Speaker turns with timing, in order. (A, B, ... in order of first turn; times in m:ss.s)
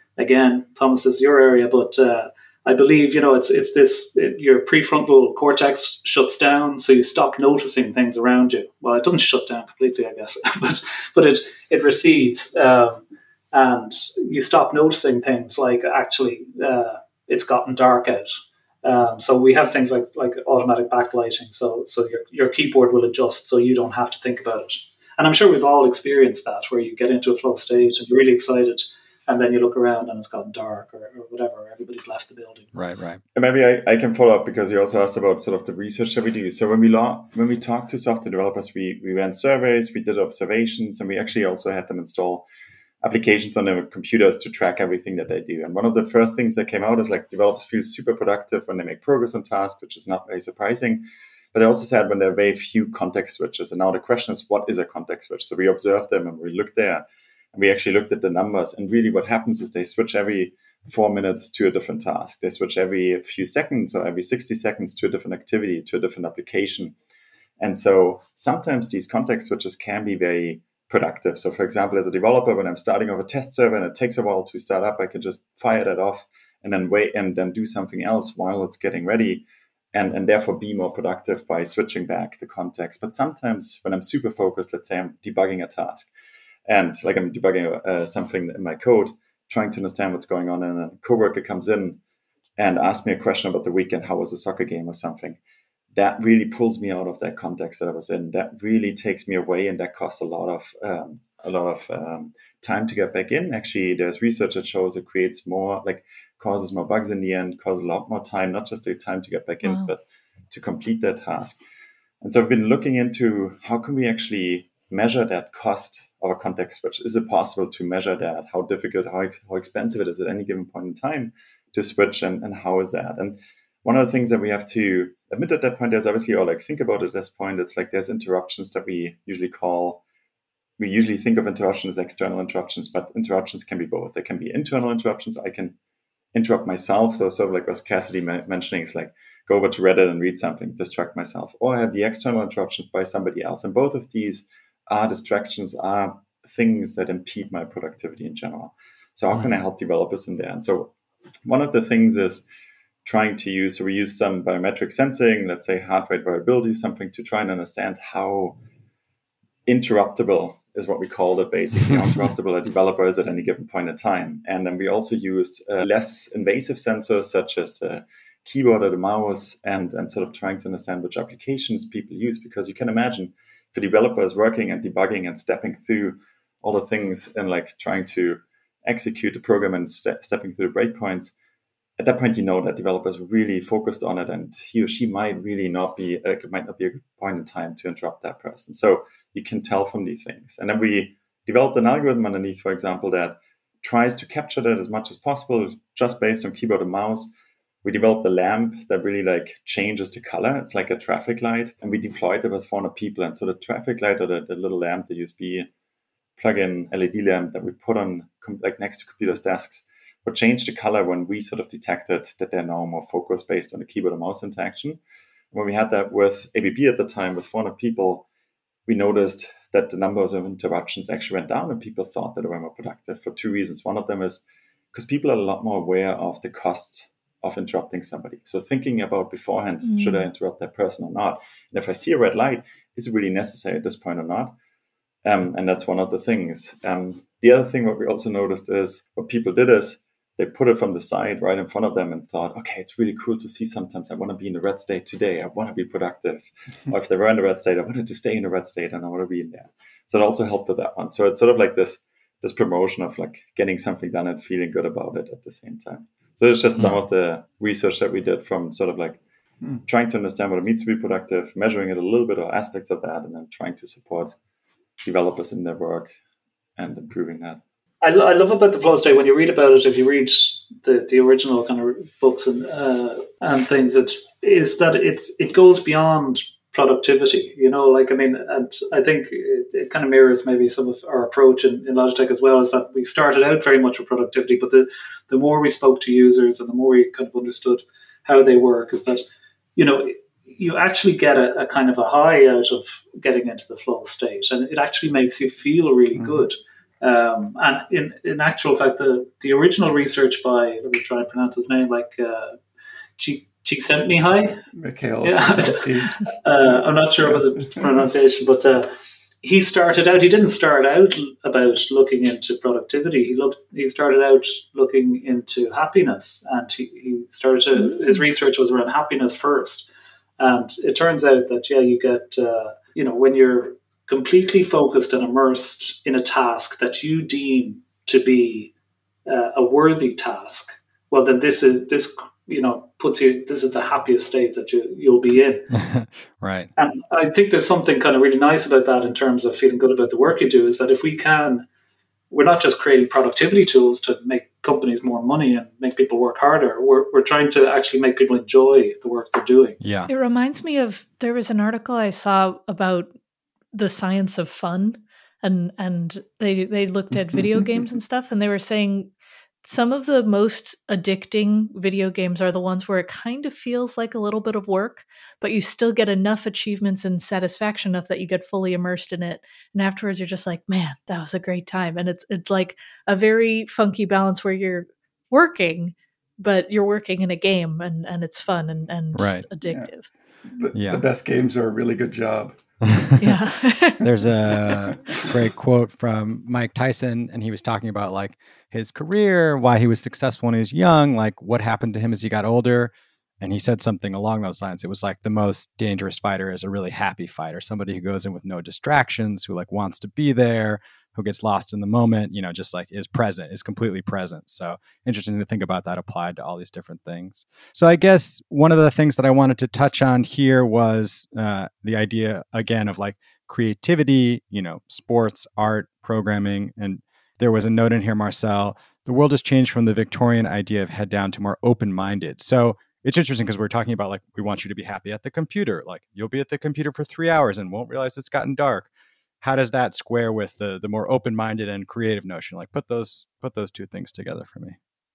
0:00.2-0:32.7 A
0:32.7-0:33.2 B
0:33.3-0:42.4 C
0:43.0-1:06.9 C
1:07.6-1:26.1 C
1:26.7-1:32.0 C
1:32.6-1:35.4 C
1:35.9-1:50.0 C
1:49.6-1:49.9 D
1:50.5-1:51.6 C
1:52.2-2:10.0 C
2:10.8-2:15.7 C
2:16.3-2:30.9 C
2:31.4-2:32.4 C
2:33.0-2:38.6 C
2:39.7-3:01.3 C
3:02.0-3:17.3 C
3:17.8-3:25.7 C
3:26.4-3:35.0 C
3:35.5-3:38.2 C
3:38.9-3:54.5 C
3:49.8-3:50.3 D
3:55.2-4:19.2 C
4:19.8-4:24.3 C
4:25.0-4:26.1 C
4:26.8-4:27.6 C
4:28.0-4:49.2 A
4:49.8-5:02.6 A
5:03.2-5:04.6 A
5:04.7-5:06.2 E
5:05.2-5:08.9 A
5:09.4-5:19.9 A
5:17.8-5:18.2 D
5:20.4-5:28.7 A
5:29.2-5:35.7 A
5:35.7-5:36.7 B
5:36.8-5:41.6 A
5:42.3-5:49.8 A
5:49.8-5:50.1 B
5:50.1-5:53.1 D
5:53.7-5:59.1 D
5:59.6-6:20.1 D
6:19.1-6:19.5 B
6:20.4-6:22.6 E
6:20.7-6:21.0 B
6:22.9-6:23.4 B
6:23.2-6:24.1 D
6:24.0-7:08.9 B
7:09.4-7:14.8 B